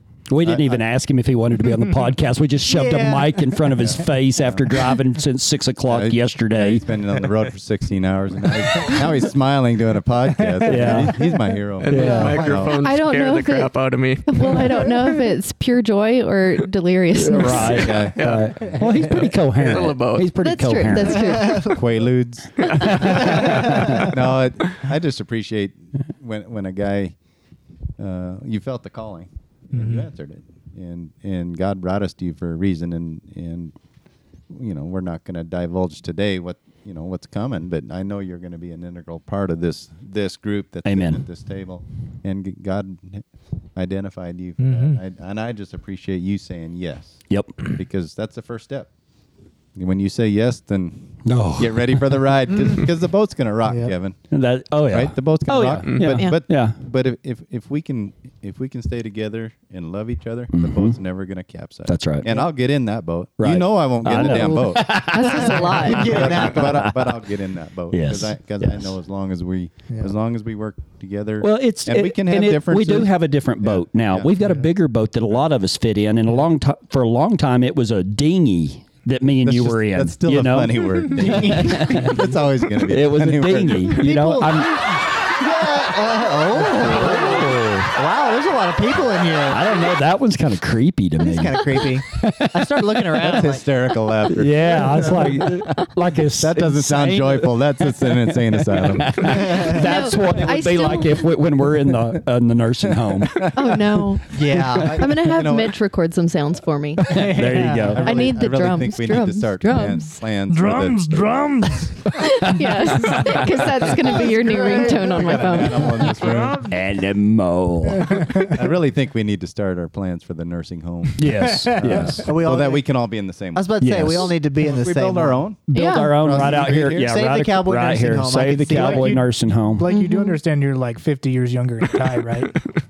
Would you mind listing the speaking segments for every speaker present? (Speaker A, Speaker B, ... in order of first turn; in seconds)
Speaker A: 0.3-6.9, 10.6-11.2, 11.9-12.5, 17.1-21.6, 22.8-24.1, 40.9-41.2, 47.3-47.7, 51.2-52.3, 54.3-56.8, 60.5-61.0, 61.9-62.3, 63.4-67.2, 67.9-69.0, 71.4-85.4, 86.6-88.0, 89.5-93.4, 94.3-103.5, 107.1-108.1, 112.5-113.6, 116.7-118.3, 121.2-122.3, 123.8-124.4, 125.7-129.9
Speaker B: 0.4-0.8, 3.8-4.8, 5.9-12.8, 17.7-18.4, 21.7-27.2, 28.0-33.8, 34.5-48.9, 49.8-54.3, 54.9-74.5, 79.4-84.2, 86.8-87.4, 93.1-99.8, 103.0-103.8, 104.5-105.8, 107.8-112.0, 114.9-116.7, 118.3-127.2
Speaker C: 2.7-3.4, 12.0-12.6, 65.5-66.9, 81.3-81.8, 84.0-89.7, 91.2-93.7, 99.3-99.8, 104.3-105.2, 114.2-116.0, 122.2-122.8, 123.5-125.5, 126.9-129.2
Speaker D: 10.4-11.5, 29.7-30.1, 44.6-45.0, 53.6-53.9, 107.1-108.2, 110.5-112.5, 116.2-116.7, 118.0-118.7, 121.2-122.2, 128.7-132.6
Speaker E: 11.8-14.9, 17.4-18.5, 19.6-20.3, 22.6-23.8, 55.9-56.2
Speaker F: 12.8-13.7, 14.2-17.9, 20.4-21.8, 64.2-66.3, 99.6-101.3, 103.5-104.4, 105.0-107.1, 108.0-110.2, 112.2-116.1, 125.7-126.2, 129.9-130.4